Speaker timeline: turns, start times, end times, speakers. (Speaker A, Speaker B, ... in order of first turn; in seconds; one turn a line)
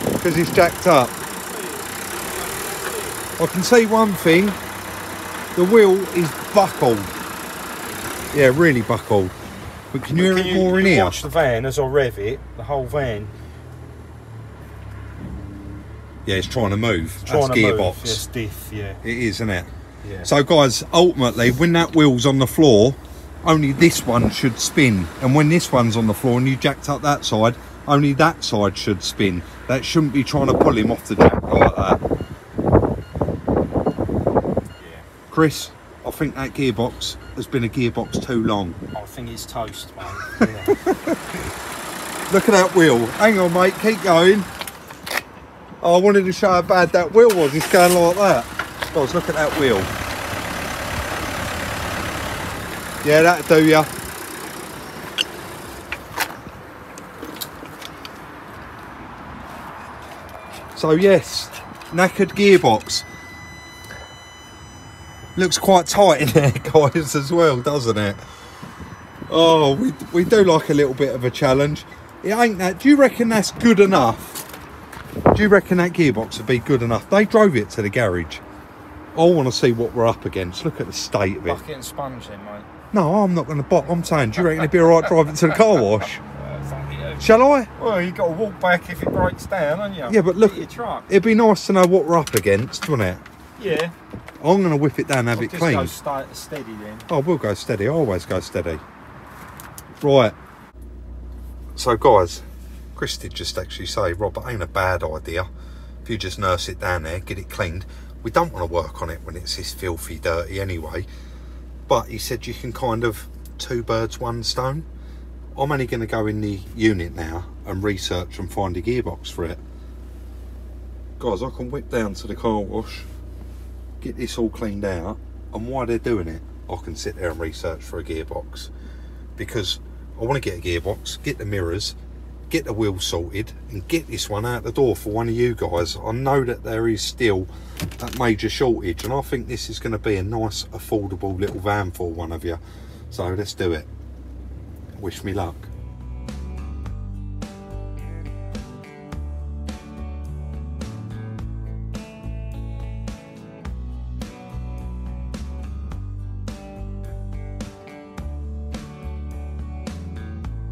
Speaker A: 0.1-1.1
Speaker B: 1.2-3.2
Speaker A: 3.4-4.6
Speaker A: 5.5-7.1
Speaker A: 8.3-9.3
Speaker A: 9.9-11.2
Speaker B: 10.2-13.3
Speaker A: 16.2-18.2
Speaker B: 17.2-19.0
Speaker A: 19.0-19.7
Speaker B: 20.0-20.3
Speaker A: 20.2-32.0
Speaker B: 34.8-35.0
Speaker A: 35.3-38.8
Speaker B: 38.9-40.8
Speaker A: 40.7-41.2
Speaker A: 42.3-44.5
Speaker A: 45.8-49.9
Speaker A: 53.0-53.9
Speaker A: 60.7-63.0
Speaker A: 65.3-68.2
Speaker A: 69.3-74.4
Speaker A: 75.3-78.4
Speaker A: 79.1-81.6
Speaker B: 81.4-82.7
Speaker A: 82.9-86.2
Speaker B: 86.4-87.2
Speaker A: 87.2-87.7
Speaker B: 87.7-91.1
Speaker A: 90.1-93.2
Speaker B: 93.6-93.9
Speaker A: 94.4-95.9
Speaker B: 95.3-97.1
Speaker A: 97.1-98.8
Speaker A: 100.0-100.3
Speaker A: 101.8-102.4
Speaker A: 103.0-105.5
Speaker A: 106.0-111.1
Speaker A: 111.9-114.9
Speaker A: 115.5-119.6
Speaker A: 121.2-123.1
Speaker A: 124.0-128.7
Speaker A: 129.4-131.9
Speaker A: 132.5-142.6
Speaker A: 143.1-143.9
Speaker A: 145.0-145.7